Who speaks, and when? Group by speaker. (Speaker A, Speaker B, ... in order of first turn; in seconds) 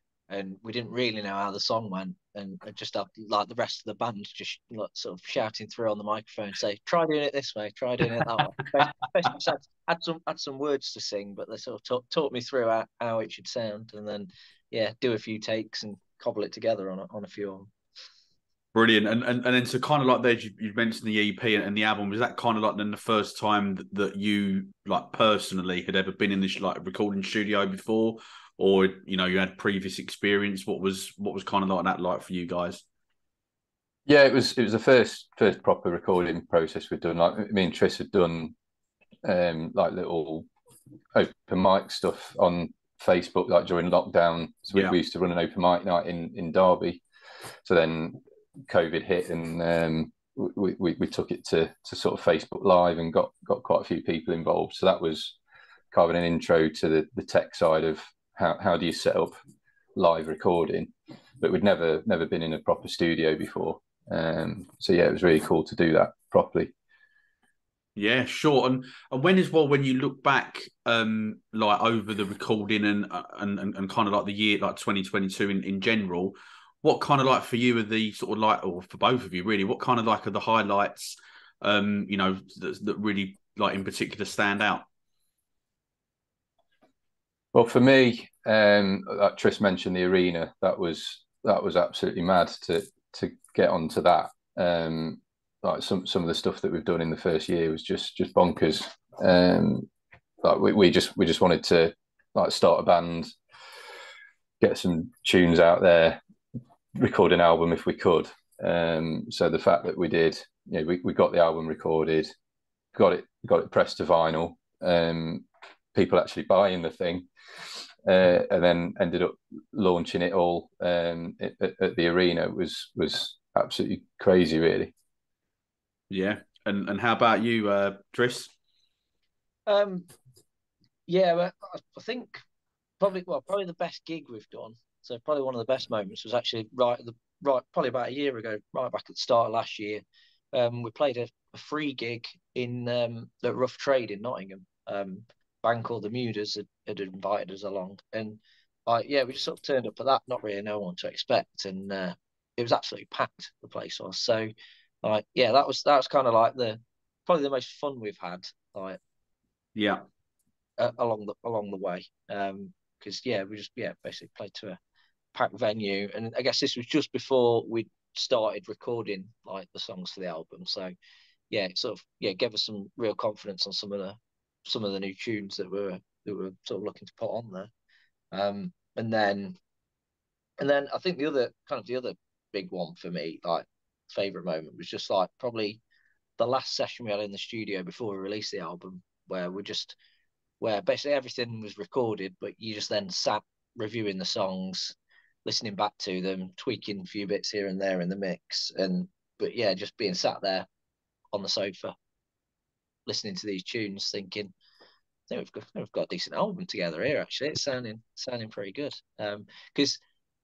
Speaker A: 0.3-17.7, 129.7-130.1, 131.1-132.4, 133.0-140.0, 140.5-154.5, 155.0-159.0, 160.8-164.8, 165.3-170.9, 171.5-177.7, 178.3-179.6, 180.6-185.8, 186.4-189.9, 190.6-200.7, 201.3-201.9, 203.1-204.5, 205.3-210.0
Speaker B: 18.7-32.8, 68.0-84.8, 126.1-128.5, 159.8-160.0
Speaker C: 34.1-38.5, 39.2-40.5, 41.1-47.0, 47.6-55.4, 55.9-59.4, 59.9-66.7, 87.5-99.9, 100.4-103.3, 104.6-106.2, 107.0-112.3, 112.9-117.3, 118.0-124.9